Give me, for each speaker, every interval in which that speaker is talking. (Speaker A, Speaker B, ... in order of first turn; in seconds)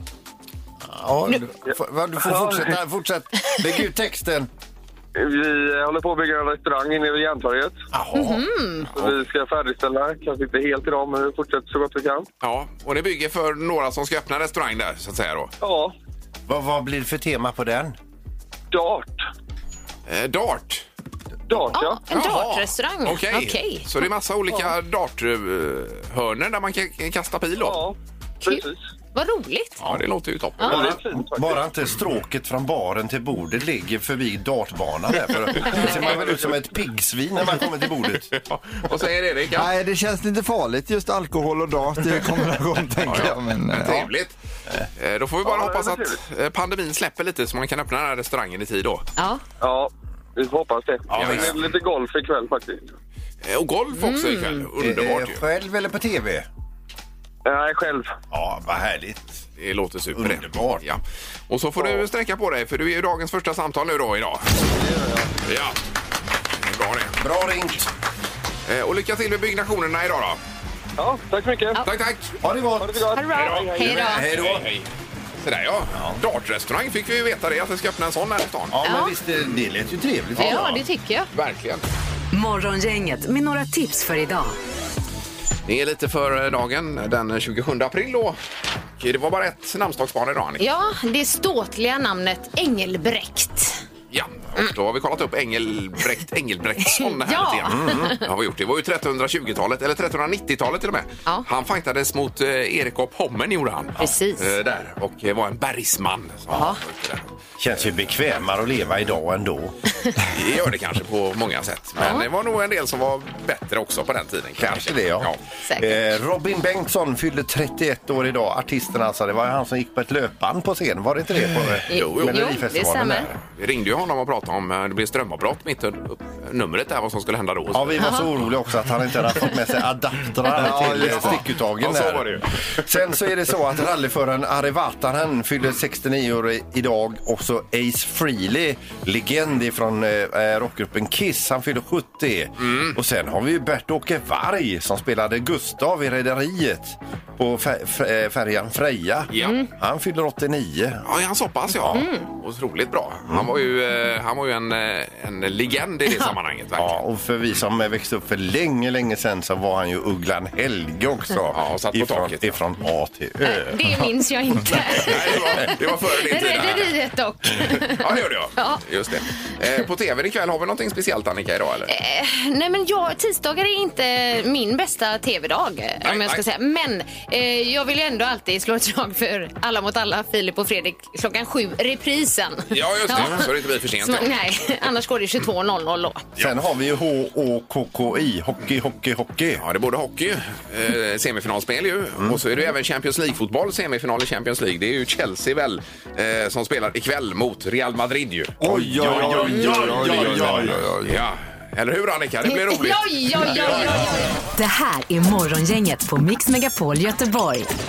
Speaker A: 0.8-4.5, 7.9-9.2, 16.5-18.0, 30.6-38.3, 51.1-51.6, 54.8-56.5, 58.3-59.3, 60.1-60.8, 67.2-67.9, 72.4-73.0, 73.8-74.6, 75.9-76.2, 78.7-80.8, 97.7-98.1, 107.6-109.8, 114.6-123.3, 127.7-151.0, 151.7-152.1, 156.8-164.1, 165.3-165.6, 186.4-189.6, 198.7-200.8, 203.6-203.9
Speaker B: 2.2-2.7, 5.2-7.8, 8.9-12.3, 15.6-15.9, 18.7-19.1, 21.5-22.0, 27.6-28.8, 30.6-31.6, 45.4-46.2, 49.6-52.8, 57.4-58.1, 64.7-65.3, 71.0-71.8, 72.8-73.9
Speaker C: 8.1-8.9, 21.7-23.9, 28.4-29.8, 35.7-36.0, 49.2-49.4, 53.9-54.6, 73.1-74.2, 78.8-79.2, 80.4-81.3, 90.6-93.8, 96.8-98.2, 104.0-104.5, 106.5-106.8, 112.0-112.2, 115.7-116.0, 121.9-123.3, 149.4-149.7, 151.9-152.3, 156.1-156.3, 163.4-169.5, 171.9-186.2, 202.4-204.3
Speaker D: 12.4-15.5, 20.1-20.8, 22.1-27.8, 29.8-30.9, 38.3-39.7, 43.0-44.3, 45.0-49.0, 51.1-51.5, 53.4-55.4, 59.6-64.5, 65.5-65.8, 66.6-67.2, 68.7-70.4, 71.8-72.3, 73.3-74.9, 75.4-78.7, 80.4-80.8, 81.3-81.8, 85.7-88.4, 89.0-90.6, 94.1-107.3, 110.3-115.4, 121.9-122.5, 123.4-128.2, 130.8-132.9, 142.6-142.9, 149.3-149.6, 151.0-156.9, 161.5-162.6, 164.9-167.0, 167.8-171.9, 176.0-176.4, 182.7-184.4, 189.6-203.9
Speaker E: 39.5-44.1, 130.5-131.4, 198.6-201.1
Speaker F: 82.3-84.5, 204.5-207.7